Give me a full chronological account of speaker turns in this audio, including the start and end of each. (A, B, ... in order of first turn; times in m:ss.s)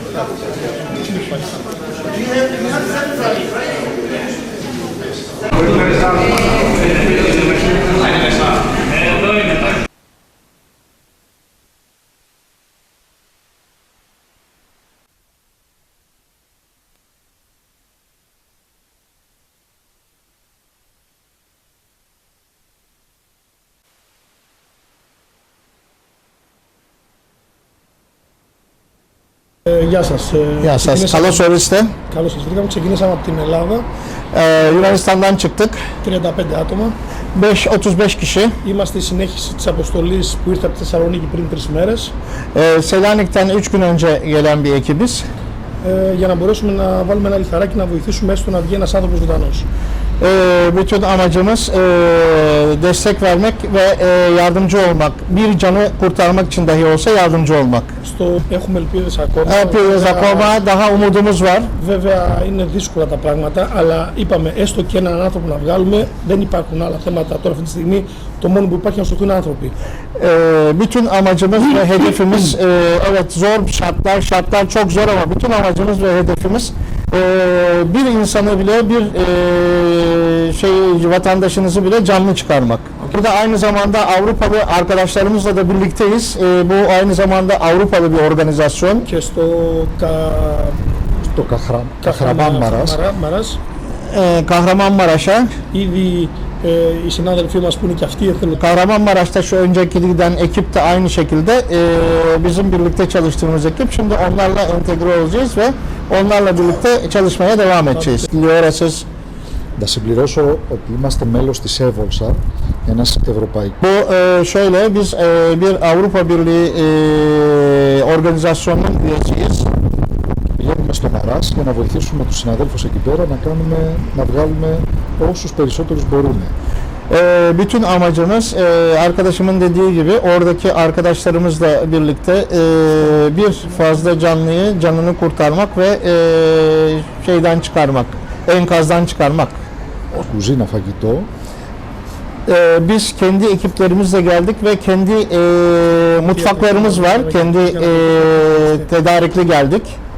0:01.0-0:01.6 A
0:29.7-0:31.4 A
0:30.6-0:31.9 B
0:32.1-0:33.8 A
0:34.3-0:35.8 B
0:36.0-0:37.0 A
0:37.3-0:38.6 B
0:38.6-0:42.1 A
0:42.5-0:45.2 B
0:45.8-0:49.7 A
0:50.2-0:57.9 B
0:58.0-1:00.6 A
0:59.5-1:01.7 B
1:01.8-1:09.7 A
1:10.2-1:29.0 B
1:29.0-1:31.1 A
1:31.3-1:33.0 C
1:32.0-1:33.6 A
1:34.0-1:35.5 B
1:35.7-1:38.6 A
1:38.6-1:49.0 B
1:49.8-1:53.8 C
1:53.8-1:59.7 B
2:00.6-2:06.5 C
2:07.1-2:19.6 B
2:20.1-2:21.3 C
2:22.5-2:30.0 B
2:26.2-2:28.9 A